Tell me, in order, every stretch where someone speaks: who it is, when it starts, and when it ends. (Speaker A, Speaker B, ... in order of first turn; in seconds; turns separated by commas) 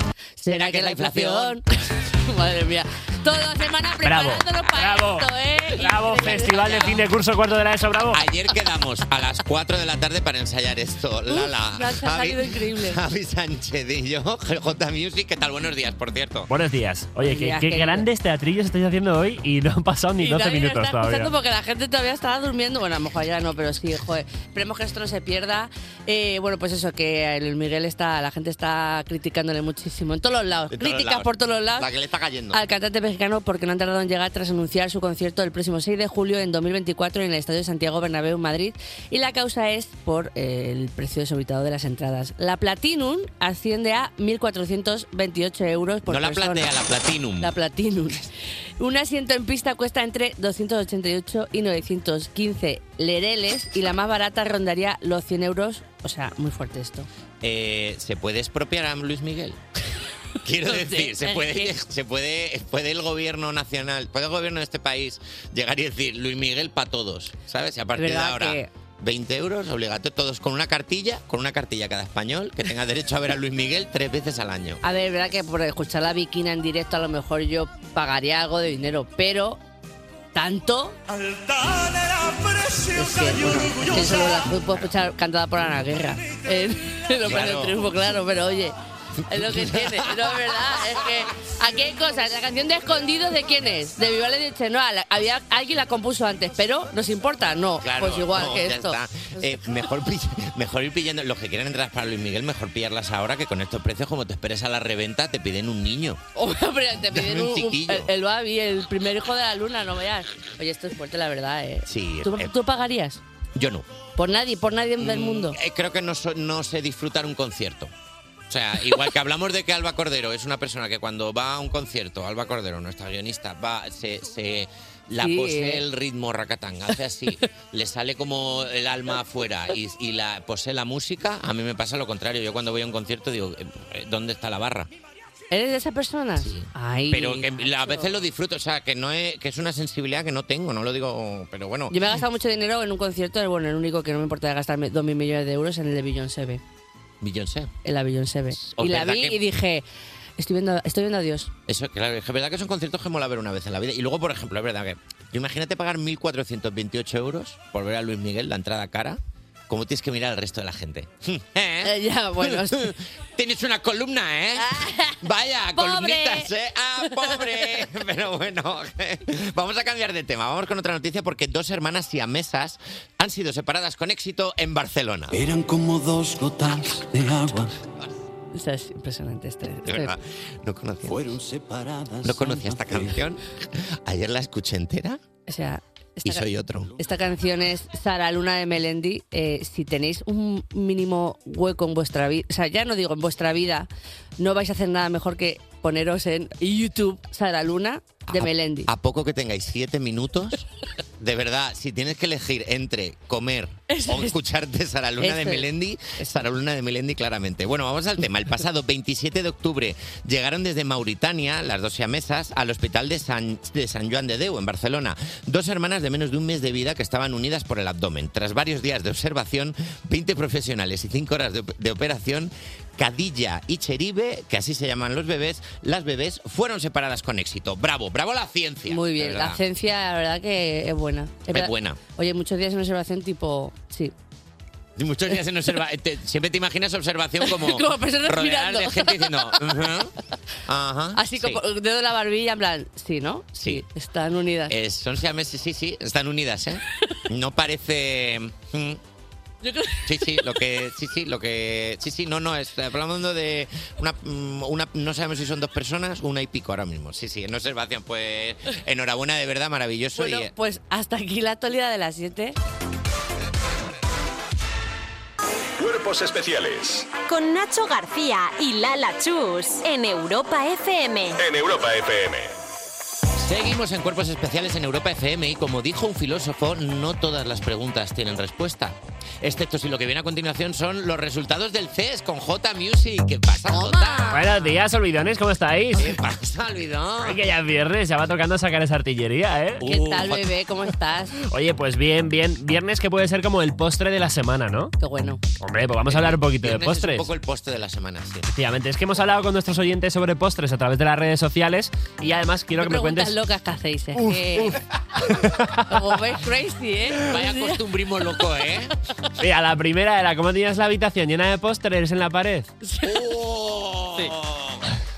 Speaker A: 0.4-7.0, Speaker B: 0.5-1.6, Speaker C: 4.0-8.2, Speaker B: 8.1-16.5, Speaker A: 11.3-13.0, Speaker C: 16.5-21.3, Speaker A: 17.2-18.1, Speaker A: 20.2-31.9, Speaker B: 30.7-32.6, Speaker A: 32.5-46.7, Speaker B: 46.1-47.5, Speaker A: 47.4-57.1, Speaker B: 57.4-59.6, Speaker B: 60.4-74.8, Speaker A: 60.6-61.7, Speaker A: 68.0-68.7, Speaker A: 74.8-79.6, Speaker A: 80.3-81.0, Speaker A: 82.9-88.8, Speaker B: 87.2-87.8, Speaker A: 89.3-99.4, Speaker B: 89.3-90.1, Speaker B: 97.8-106.2, Speaker A: 106.4-113.2, Speaker B: 107.1-108.1, Speaker B: 111.9-112.5, Speaker B: 113.5-113.9, Speaker A: 114.2-115.6, Speaker B: 115.0-117.9, Speaker B: 118.5-134.9, Speaker A: 125.2-125.8, Speaker A: 135.5-138.1, Speaker B: 136.4-142.0, Speaker A: 141.9-146.6, Speaker B: 147.2-147.7, Speaker A: 147.8-149.8, Speaker B: 148.6-149.4, Speaker A: 150.4-151.5, Speaker B: 151.7-175.4, Speaker A: 161.8-162.9, Speaker A: 164.6-165.2, Speaker A: 165.7-166.5, Speaker A: 167.1-167.4, Speaker D: 175.3-177.7, Speaker A: 178.5-180.1, Speaker B: 179.9-181.3, Speaker D: 181.1-183.2, Speaker B: 182.2-185.2, Speaker A: 185.5-198.9, Speaker B: 186.2-186.9, Speaker B: 198.3-200.6, Speaker B: 201.2-229.6, Speaker A: 203.9-204.4, Speaker A: 205.2-206.3, Speaker A: 228.9-234.1, Speaker B: 231.5-232.0, Speaker B: 235.0-240.1, Speaker A: 237.4-239.7, Speaker B: 240.7-241.6, Speaker A: 241.2-244.8, Speaker B: 243.6-243.8, Speaker B: 244.7-249.0, Speaker A: 249.6-250.6, Speaker B: 250.1-260.5, Speaker A: 260.2-262.6, Speaker E: 265.8-267.1, Speaker F: 267.3-271.4, Speaker E: 271.4-272.6, Speaker B: 273.4-284.5, Speaker A: 283.7-284.5, Speaker C: 284.3-286.2, Speaker B: 286.0-287.4, Speaker C: 287.2-289.8, Speaker B: 289.8-290.5, Speaker A: 289.8-291.4, Speaker C: 291.4-294.9, Speaker A: 295.0-295.4, Speaker C: 295.6-297.3, Speaker B: 296.1-298.5, Speaker C: 298.5-303.4, Speaker A: 302.8-304.8, Speaker C: 305.4-305.8, Speaker A: 305.8-307.8, Speaker B: 307.3-308.9, Speaker C: 309.4-312.7, Speaker A: 312.8-313.2, Speaker B: 313.1-314.8